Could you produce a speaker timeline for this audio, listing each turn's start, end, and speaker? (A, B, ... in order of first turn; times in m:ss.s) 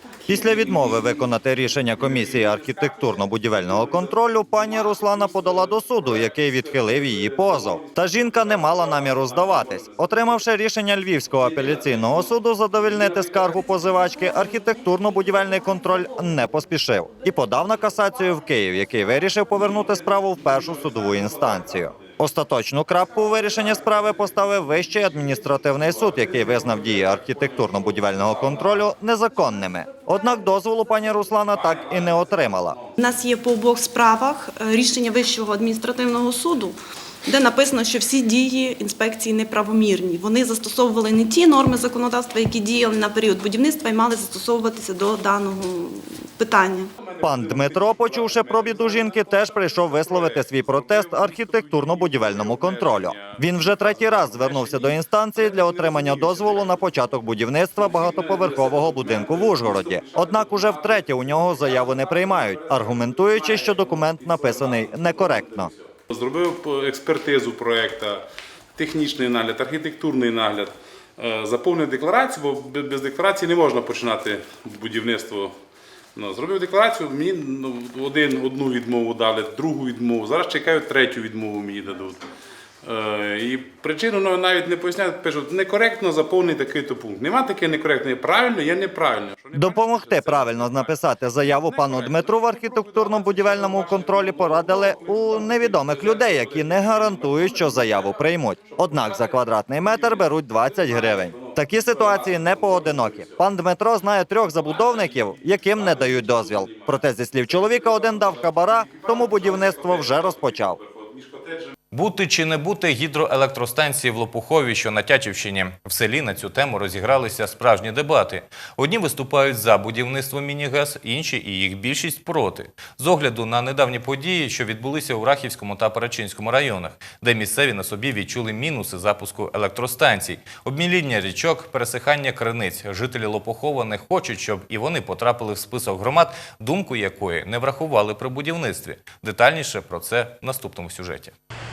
0:00.3-0:32.8 A
0:00.5-0:01.0 B
0:02.0-0:10.0 B
0:11.4-0:12.1 B
0:13.1-0:13.5 B
0:19.8-0:22.1 B
0:25.4-0:28.8 B
0:31.5-0:32.8 B
0:33.0-0:36.8 C
0:37.3-0:46.9 C
0:47.0-0:56.9 B
0:47.2-1:05.7 A
0:57.8-1:15.6 B
1:16.1-1:22.2 B
1:22.8-1:43.4 B
1:29.5-1:50.8 A
1:44.6-1:51.7 B
1:51.9-2:21.3 D